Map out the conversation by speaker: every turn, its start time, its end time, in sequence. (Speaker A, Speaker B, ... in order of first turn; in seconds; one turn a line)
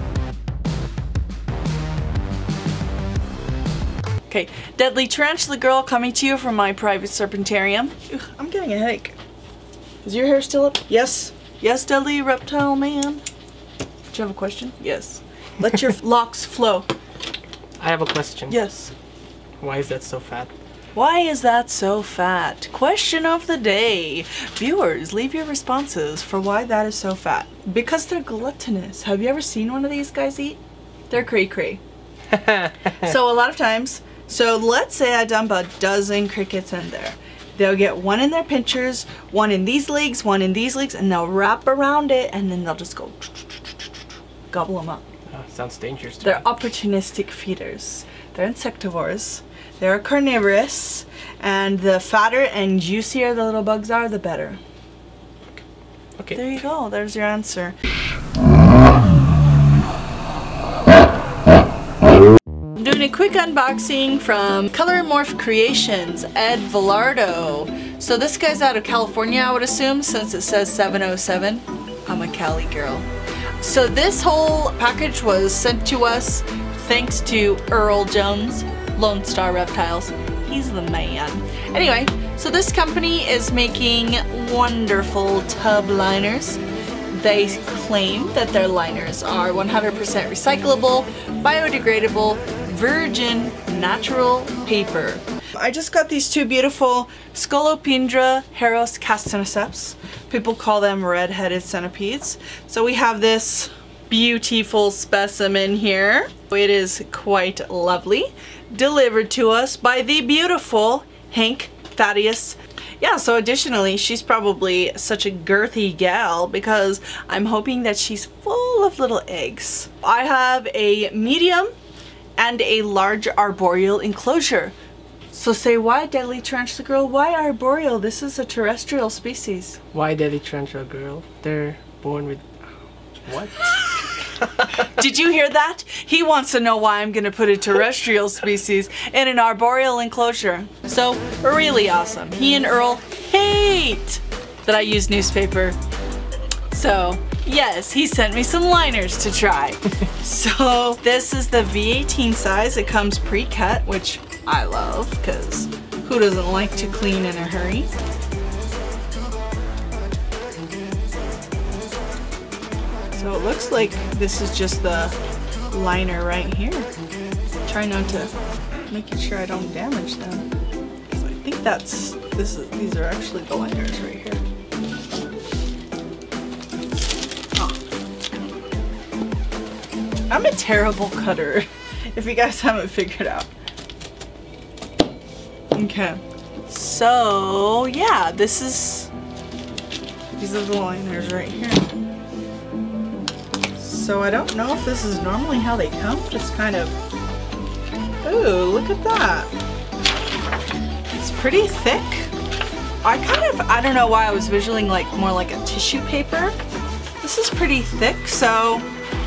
Speaker A: 4.3-9.2
Speaker A: 10.0-13.2
Speaker A: 14.1-16.9
Speaker B: 17.8-18.6
Speaker A: 18.5-18.9
Speaker B: 19.6-20.5
Speaker A: 20.9-30.6
Speaker A: 31.1-31.8
Speaker B: 32.3-32.9
Speaker A: 32.9-43.9
Speaker A: 44.5-45.0
Speaker B: 45.3-46.4
Speaker A: 46.2-54.6
Speaker A: 56.3-57.8
Speaker A: 62.7-73.1
Speaker A: 73.6-86.6
Speaker A: 87.1-121.7
Speaker A: 122.4-124.7
Speaker A: 125.3-129.8
Speaker B: 129.9-132.4
Speaker B: 133.2-134.9
Speaker A: 133.6-134.1
Speaker A: 134.7-145.8
Speaker A: 146.7-157.9
Speaker A: 163.1-165.2
Speaker A: 165.7-166.9
Speaker A: 167.7-168.3
Speaker A: 168.9-170.5
Speaker A: 171.1-174.4
Speaker A: 177.6-177.8
Speaker A: 180.3-183.5
Speaker A: 185.7-189.1
Speaker A: 190.4-191.9
Speaker A: 193.8-197.0
Speaker A: 198.2-199.5
Speaker A: 201.2-202.3
Speaker A: 203.0-206.6
Speaker A: 207.2-208.9